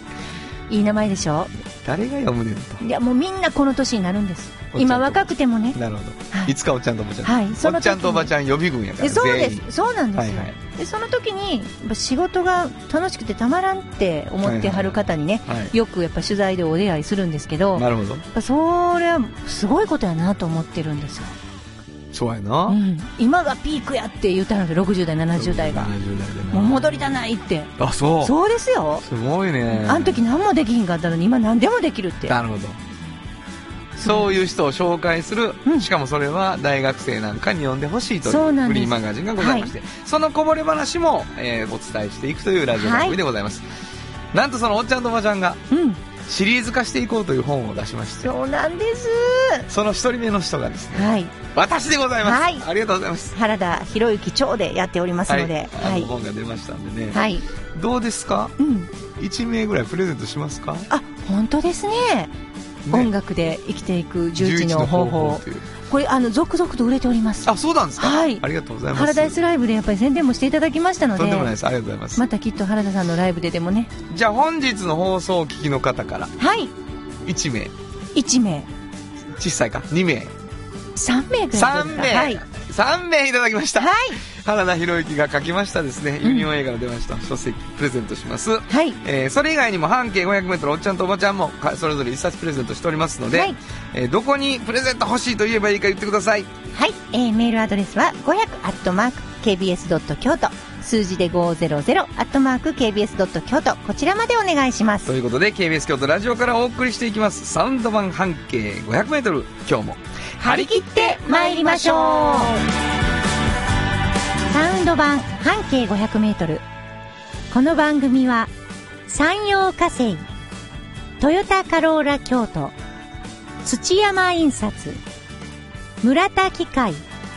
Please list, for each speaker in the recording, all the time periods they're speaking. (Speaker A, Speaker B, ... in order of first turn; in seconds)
Speaker A: 0.7-1.5, 2.8-5.8, 7.2-8.3, 9.0-21.4, 22.7-25.9, 26.5-29.1, 29.7-32.4, 38.2-39.7, 42.7-43.2, 45.7-46.0, 48.2-49.7, 50.9-51.3, 52.2-52.6, 53.3-56.1, 57.1-57.5, 58.6-58.9, 60.9-62.3, 62.9-71.5, 72.2-73.9, 76.4-76.7, 78.1-78.7, 81.0-82.4, 83.8-84.2, 86.2-86.5, 88.7-89.0, 96.7-105.1, 110.4-112.5, 114.5-116.6, 117.5-118.5, 119.1-120.2, 121.2-122.8, 123.6-125.0, 126.0-127.0
Speaker B: 1.8-2.8, 4.7-10.6, 14.4-15.7, 17.7-18.2, 22.1-22.8, 25.4-27.1, 27.8-28.3, 29.0-30.2, 32.2-32.8, 34.0-43.6, 44.3-45.6, 46.2-48.3, 49.7-53.4, 55.3-60.9, 64.4-65.7, 67.4-69.4, 71.2-72.2, 74.1-76.3, 77.2-77.7, 79.3-80.3, 81.5-96.5, 105.0-110.8, 111.4-112.0